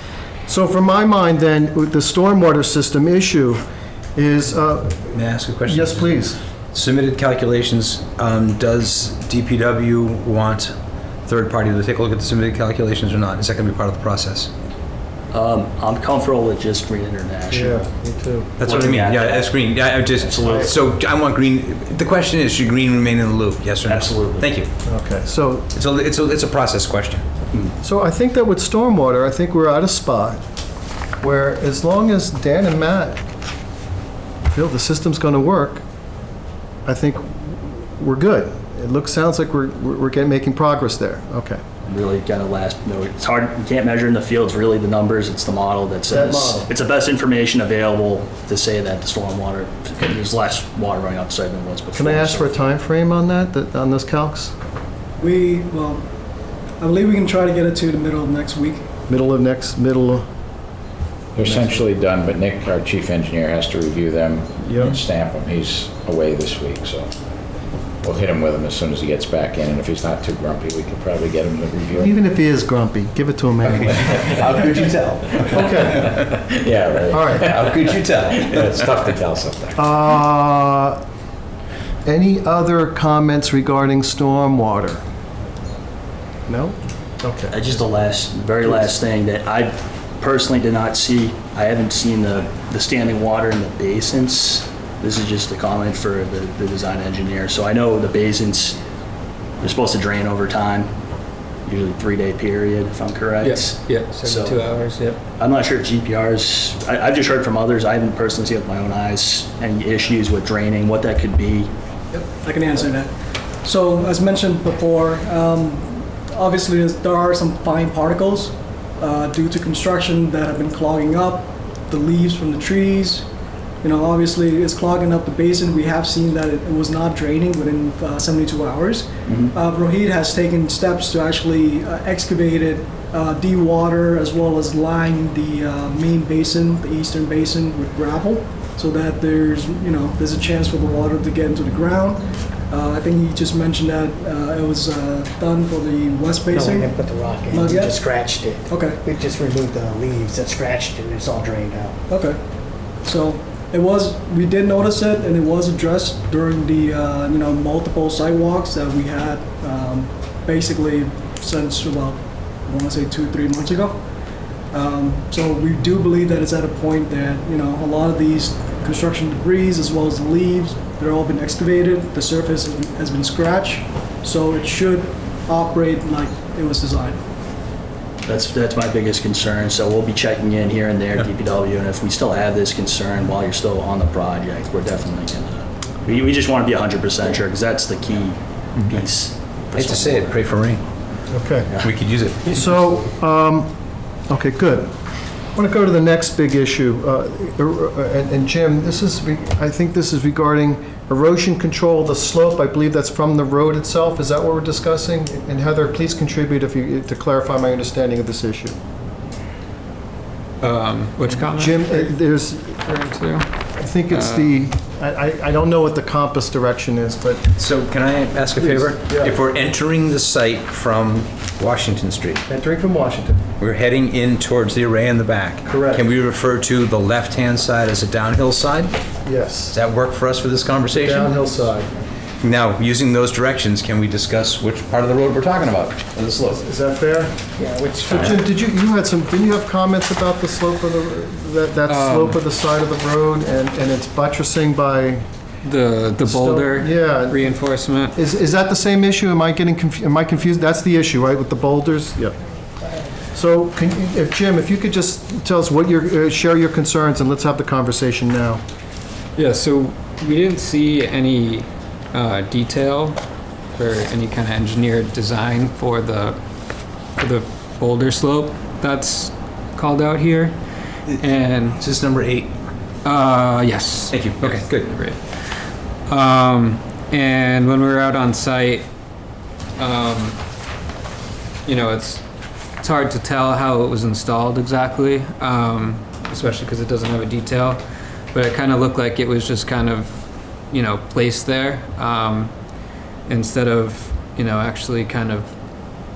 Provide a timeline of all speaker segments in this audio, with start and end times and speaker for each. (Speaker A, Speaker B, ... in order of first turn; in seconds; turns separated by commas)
Speaker A: 0.5-3.6, Speaker A: 4.1-6.4, Speaker B: 5.1-6.2, Speaker B: 6.7-10.7, Speaker B: 11.2-14.5, Speaker C: 15.3-17.9, Speaker A: 17.5-18.5, Speaker B: 18.6-24.7, Speaker C: 18.6-20.8, Speaker A: 20.4-20.7, Speaker C: 23.9-24.6, Speaker A: 24.9-25.7, Speaker B: 25.7-27.2, Speaker A: 27.8-30.4, Speaker A: 31.2-33.2, Speaker A: 34.5-35.8, Speaker A: 36.9-41.6, Speaker C: 41.8-52.5, Speaker A: 46.1-46.7, Speaker A: 51.9-54.5, Speaker D: 55.2-56.0, Speaker D: 56.8-58.8, Speaker A: 59.1-60.3, Speaker E: 61.4-67.1, Speaker A: 64.6-65.0, Speaker E: 68.0-72.1, Speaker A: 72.0-74.2, Speaker B: 73.6-76.4, Speaker A: 75.5-76.1, Speaker E: 76.2-79.8, Speaker A: 77.1-77.5, Speaker B: 77.5-79.0, Speaker A: 79.8-81.0, Speaker A: 82.0-85.0, Speaker A: 86.5-87.8, Speaker C: 87.5-98.8, Speaker C: 99.6-100.9, Speaker C: 101.7-104.6, Speaker F: 103.4-105.2, Speaker C: 105.4-111.7, Speaker D: 112.1-113.1, Speaker D: 113.6-123.3, Speaker D: 123.8-149.0, Speaker C: 129.2-129.5, Speaker G: 146.5-152.0, Speaker D: 152.1-152.4, Speaker D: 153.0-164.0, Speaker D: 164.7-177.2, Speaker C: 178.2-190.5, Speaker B: 189.8-190.8, Speaker A: 191.3-191.7, Speaker B: 191.8-192.7, Speaker A: 192.5-193.7, Speaker A: 194.3-194.9, Speaker A: 195.6-208.8, Speaker F: 210.6-212.2, Speaker A: 211.4-212.8, Speaker F: 212.8-213.5, Speaker A: 213.8-217.5, Speaker F: 214.1-214.6, Speaker B: 217.6-222.4, Speaker A: 218.6-219.4, Speaker A: 222.5-223.4, Speaker B: 223.6-229.0, Speaker A: 225.7-226.1, Speaker A: 229.2-229.8, Speaker B: 229.7-231.3, Speaker A: 230.9-231.9, Speaker B: 232.4-236.6, Speaker A: 236.5-237.3, Speaker G: 237.6-238.3, Speaker A: 238.1-245.2, Speaker F: 241.9-242.4, Speaker F: 245.6-248.2, Speaker A: 246.2-252.4, Speaker A: 253.3-258.6, Speaker F: 259.4-263.2, Speaker F: 263.8-266.4, Speaker F: 267.2-270.6, Speaker F: 271.2-271.8, Speaker B: 271.8-272.5, Speaker F: 273.0-275.2, Speaker B: 274.1-274.9, Speaker F: 276.1-278.9, Speaker F: 279.8-280.4, Speaker F: 281.6-282.2, Speaker F: 282.8-287.8, Speaker F: 288.3-290.2, Speaker F: 290.7-292.5, Speaker F: 293.3-295.5